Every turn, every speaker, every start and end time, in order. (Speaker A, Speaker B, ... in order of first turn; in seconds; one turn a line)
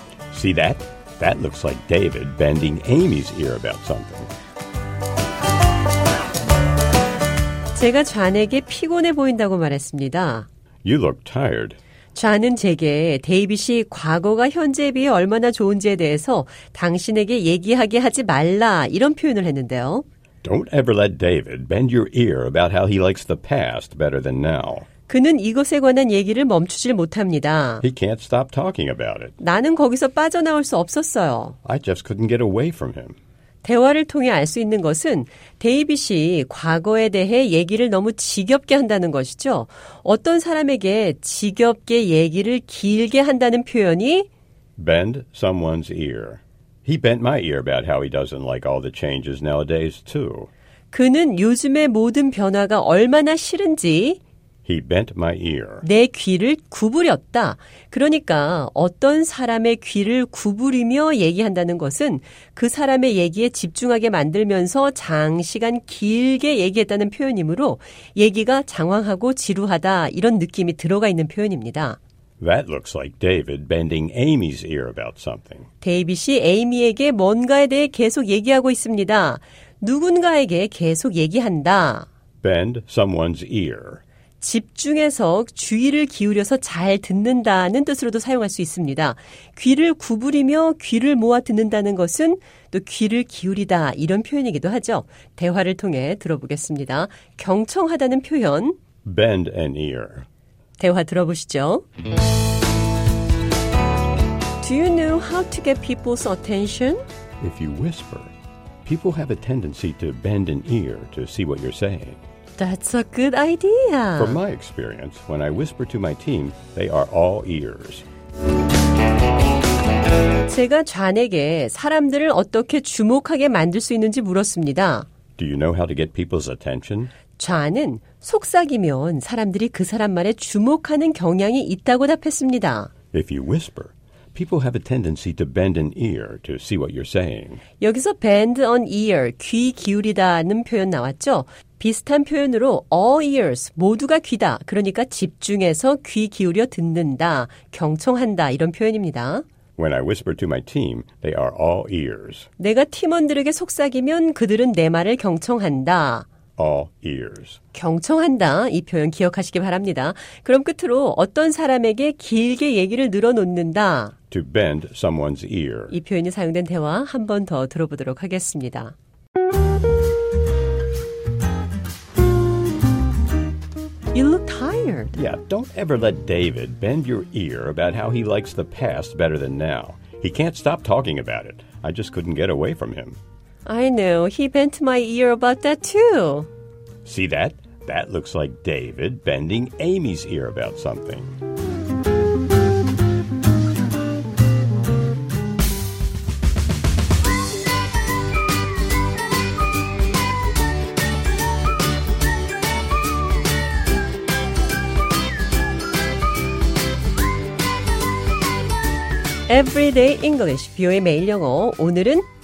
Speaker A: 0.3-4.3
Speaker B: 7.7-10.5
Speaker A: 10.8-11.8
Speaker B: 12.2-20.1
Speaker A: 20.4-24.9
Speaker B: 25.1-27.9
Speaker A: 27.8-29.4
Speaker B: 29.4-31.6
Speaker A: 31.6-33.2
Speaker B: 33.6-44.3
Speaker A: 44.8-50.5
Speaker B: 50.9-54.2
Speaker A: 54.7-55.8
Speaker B: 55.8-72.0
Speaker A: 72.4-75.7
Speaker B: 75.8-82.1
Speaker A: 82.4-84.0
Speaker B: 84.4-98.8
Speaker A: 99.0-100.3
Speaker B: 100.8-101.8
Speaker B: 104.6-107.0
Speaker A: 107.4-108.3
Speaker A: 108.8-112.2
Speaker B: 112.6-114.4
Speaker A: 114.2-118.1
Speaker B: 120.5-125.1
Speaker A: 125.4-127.1
Speaker B: 127.4-132.9
Speaker A: 133.1-137.6
Speaker B: 137.8-149.4
Speaker A: 149.8-152.5
Speaker B: 152.6-156.3
Speaker A: 156.6-157.6
Speaker B: 157.7-164.2
Speaker A: 164.3-165.9
Speaker B: 165.9-168.9
Speaker B: 174.1-175.1
Speaker A: 175.2-183.2
Speaker B: 183.7-186.5
Speaker A: 187.1-191.4
Speaker B: 209.5-212.2